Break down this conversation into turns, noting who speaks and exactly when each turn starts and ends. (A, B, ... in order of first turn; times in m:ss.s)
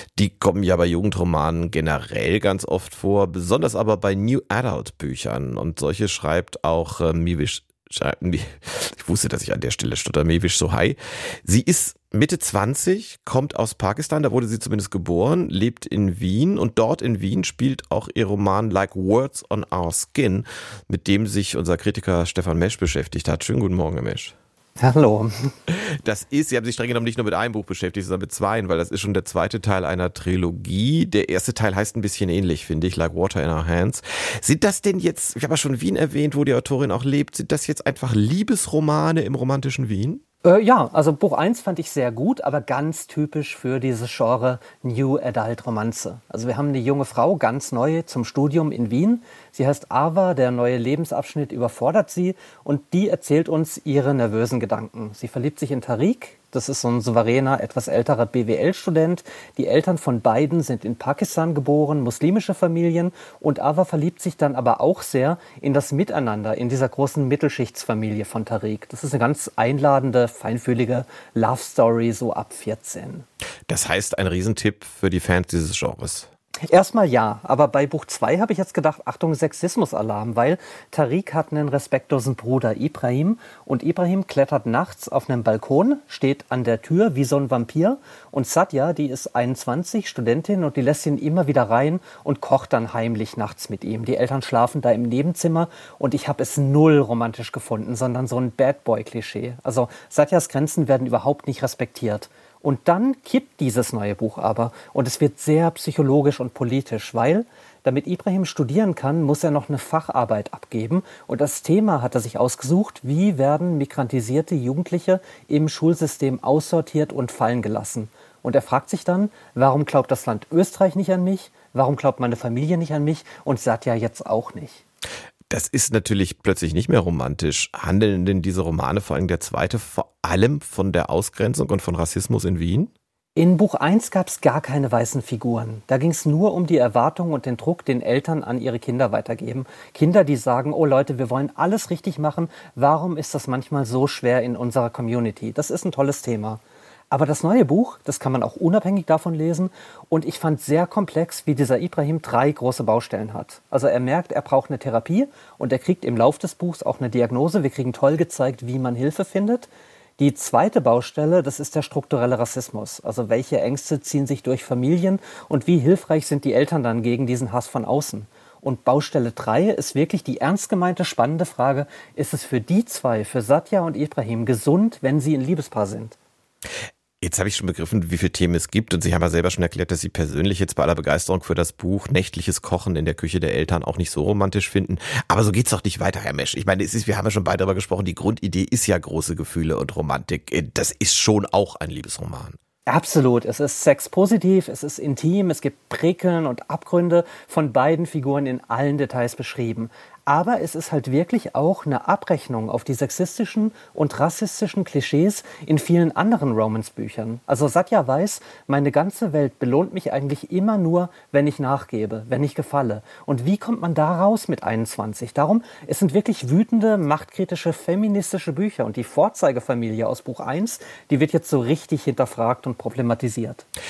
0:00.2-0:24.4 A
0:24.8-0:25.5 B
0:25.7-0:40.2 A
0:40.4-1:13.3 B
1:13.7-1:16.3 A
1:16.7-2:04.8 B
2:05.5-2:12.9 A
2:13.4-2:56.2 B
2:57.2-3:12.6 A
3:12.9-3:43.7 B